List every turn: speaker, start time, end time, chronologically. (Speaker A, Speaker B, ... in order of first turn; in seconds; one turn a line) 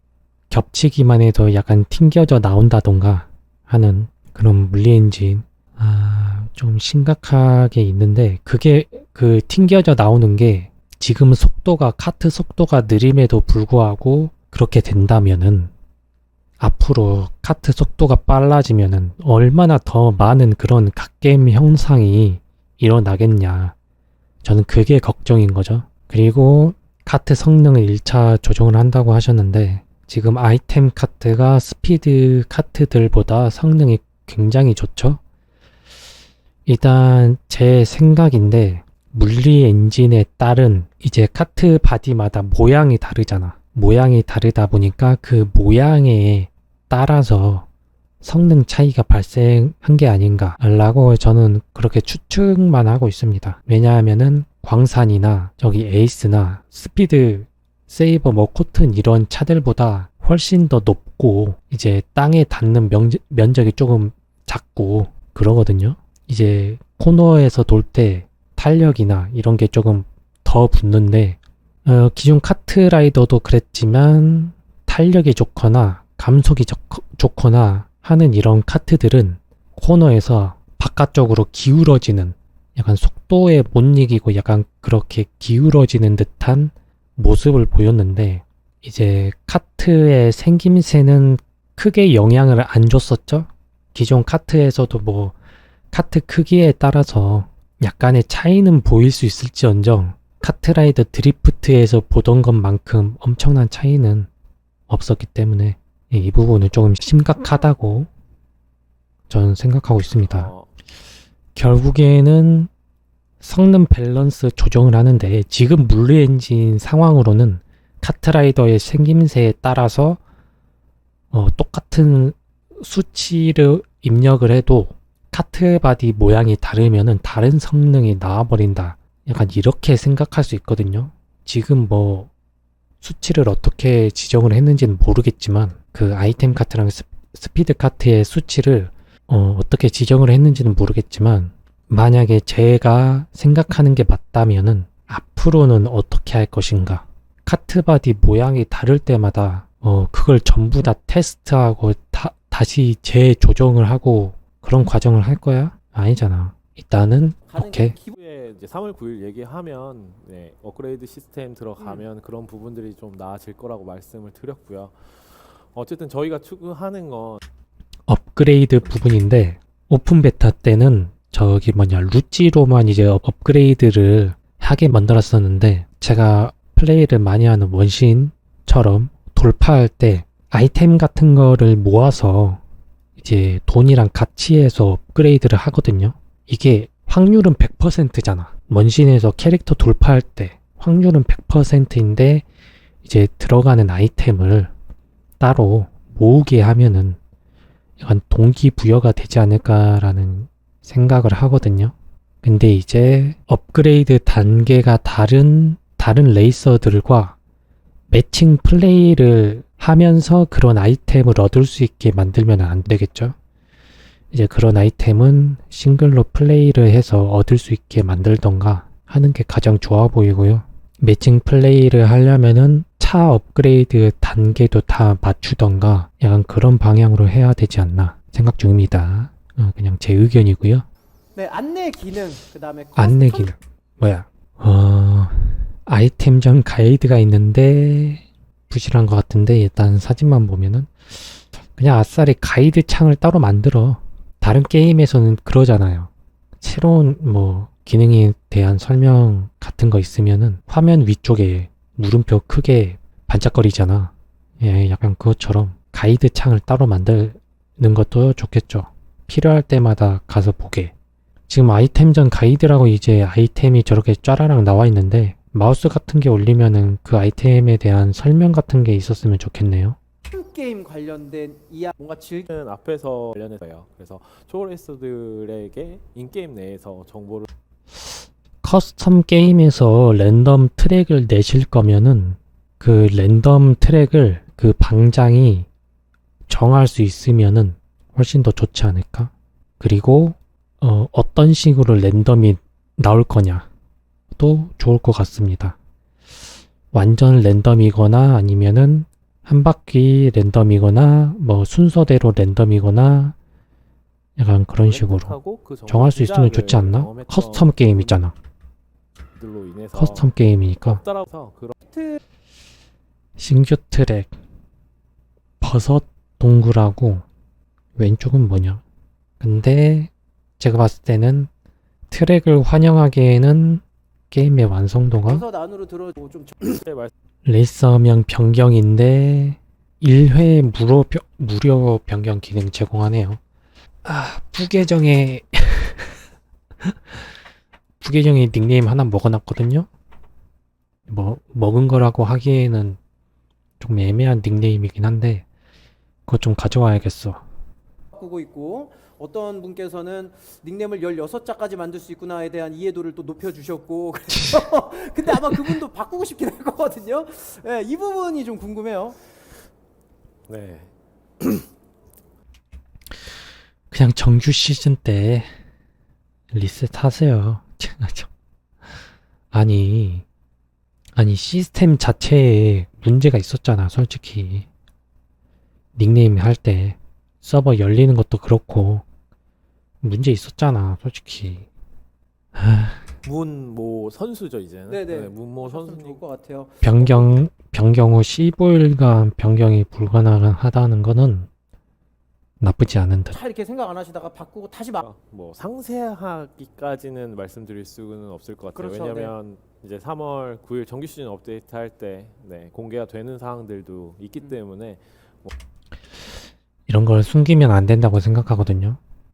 Speaker A: 0.5-15.7
Speaker A: 16.6-23.7
Speaker A: 24.4-35.2
Speaker A: 36.6-47.7
Speaker A: 48.2-95.3
Speaker A: 95.9-104.3
Speaker A: 104.9-108.1
Speaker A: 109.3-110.5
Speaker B: 110.2-110.7
Speaker A: 111.5-112.7
Speaker A: 113.4-120.2
Speaker A: 121.3-132.3
Speaker A: 133.0-157.9
Speaker C: 157.5-158.2
Speaker B: 158.2-167.4
Speaker A: 168.1-182.6
Speaker A: 183.2-192.4
Speaker A: 193.0-194.7
Speaker A: 195.4-197.2
Speaker A: 198.0-207.4
Speaker A: 208.1-213.3
Speaker A: 214.3-230.9
Speaker C: 231.3-233.5
Speaker A: 232.9-246.1
Speaker A: 246.6-260.9
Speaker A: 261.5-269.9
Speaker C: 270.3-272.5
Speaker B: 272.5-277.5
Speaker A: 278.0-285.7
Speaker A: 286.5-293.7
Speaker A: 294.4-295.8
Speaker A: 296.9-303.4
Speaker A: 304.4-305.4
Speaker B: 304.8-308.2
Speaker A: 305.9-308.3
Speaker B: 309.4-310.3
Speaker A: 309.9-311.0
Speaker B: 310.8-311.8
Speaker C: 311.9-312.2
Speaker A: 313.4-314.3
Speaker A: 315.6-317.2
Speaker A: 317.9-318.8
Speaker A: 319.4-321.5
Speaker A: 322.1-325.4
Speaker C: 325.2-326.8
Speaker B: 326.6-327.1
Speaker A: 327.4-333.4
Speaker A: 334.0-336.1
Speaker A: 336.8-337.2
Speaker A: 338.0-339.9
Speaker A: 341.1-343.0
Speaker A: 343.8-345.4
Speaker A: 346.3-347.4
Speaker C: 348.1-359.2
Speaker A: 354.3-354.6
Speaker B: 360.5-361.7
Speaker A: 363.9-365.5
Speaker A: 366.5-368.3
Speaker A: 369.5-370.2
Speaker A: 371.1-374.6
Speaker A: 375.9-379.0
Speaker A: 380.0-381.6
Speaker A: 382.5-383.1
Speaker B: 383.2-386.2
Speaker C: 384.9-387.3
Speaker A: 386.8-391.5
Speaker A: 392.6-393.4
Speaker C: 393.3-395.0
Speaker B: 395.0-405.5
Speaker C: 398.7-399.3
Speaker A: 406.9-409.0